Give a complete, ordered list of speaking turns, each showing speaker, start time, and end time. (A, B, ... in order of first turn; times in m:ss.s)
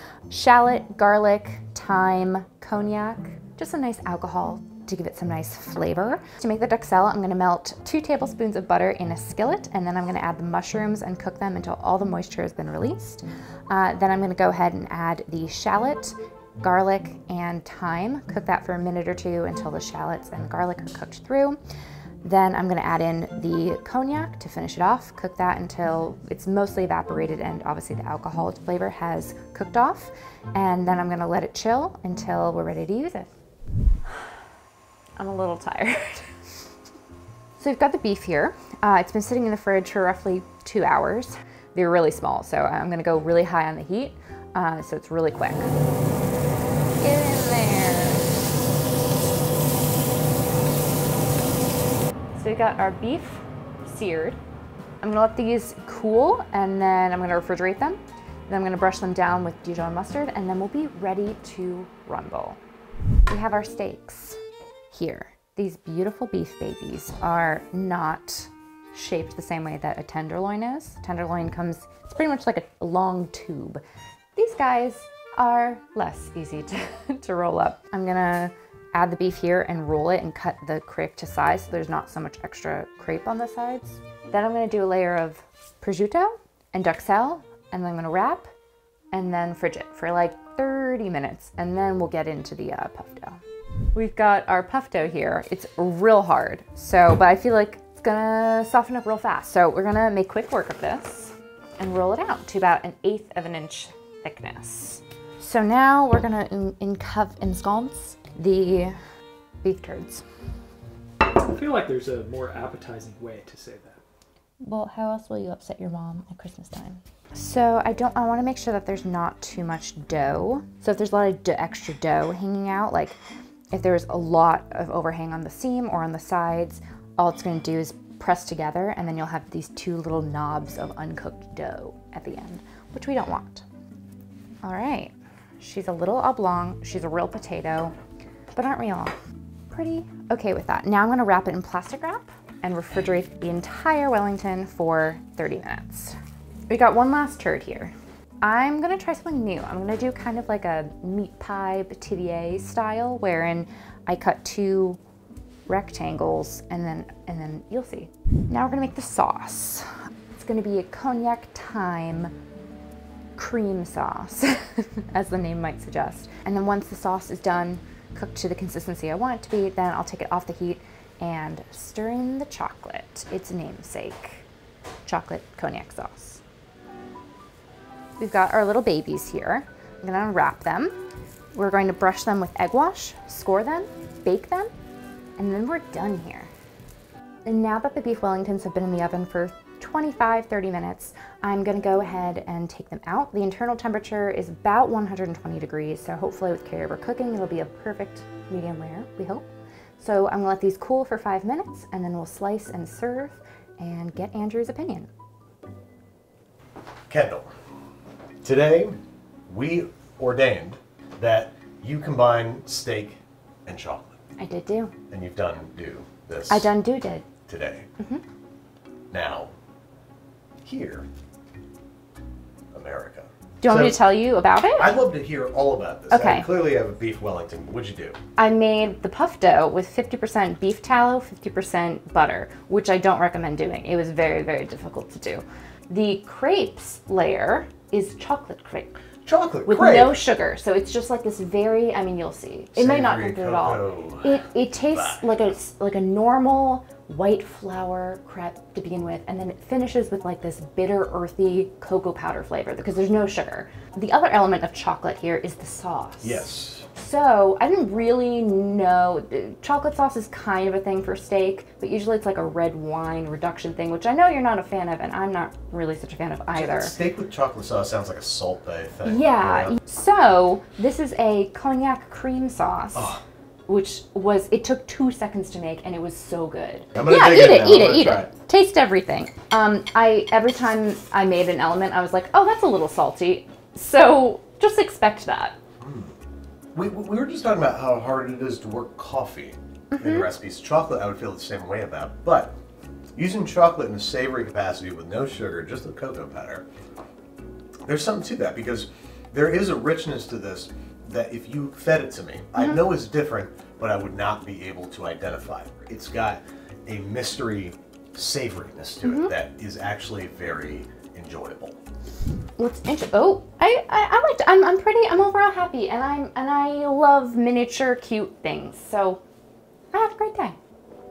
0:00.3-0:21.6 A
0:22.2-0:33.3 A
0:35.2-0:36.3 A
0:37.6-0:45.7 A
0:47.0-0:48.4 A
0:52.3-0:54.4 A
0:55.0-1:02.6 A
1:03.3-1:04.4 A
1:04.9-1:13.8 A
1:14.4-1:28.5 A
1:29.1-1:33.4 A
1:33.9-1:49.0 A
1:49.6-1:50.2 A
1:51.2-1:54.0 B
1:54.6-2:03.2 A
2:03.7-2:13.6 A
2:14.6-2:17.9 A
2:18.5-2:19.1 A
2:19.7-2:26.2 A
2:26.7-2:35.0 A
2:35.7-2:42.3 A
2:43.4-2:54.5 A
2:55.0-2:56.4 A
2:58.2-3:00.9 A
3:01.5-3:04.7 A
3:05.4-3:06.5 A
3:07.4-3:25.1 A
3:27.1-3:27.5 C
3:28.4-3:34.2 C
3:34.4-3:34.9 A
3:35.1-3:36.8 C
3:36.5-3:37.3 A
3:37.4-3:37.9 C
3:39.1-3:39.5 C
3:40.6-3:41.1 C
3:42.7-3:44.1 C
3:43.6-3:45.1 A
3:44.7-3:48.2 C
3:46.1-3:46.7 A
3:48.4-3:59.0 A
3:59.2-4:00.2 C
3:59.6-4:26.9 A
4:02.8-4:05.2 C
4:16.2-4:16.9 C
4:26.5-4:29.7 C
4:29.0-4:45.6 A
4:33.0-4:33.2 C
4:36.9-4:38.3 C
4:45.8-4:46.1 C
4:46.7-4:52.6 C
4:49.9-4:50.3 A
4:53.1-4:56.6 C
4:57.9-5:11.8 C
5:02.6-5:02.8 A
5:09.0-5:09.3 A
5:12.6-5:19.2 A
5:19.9-5:20.6 A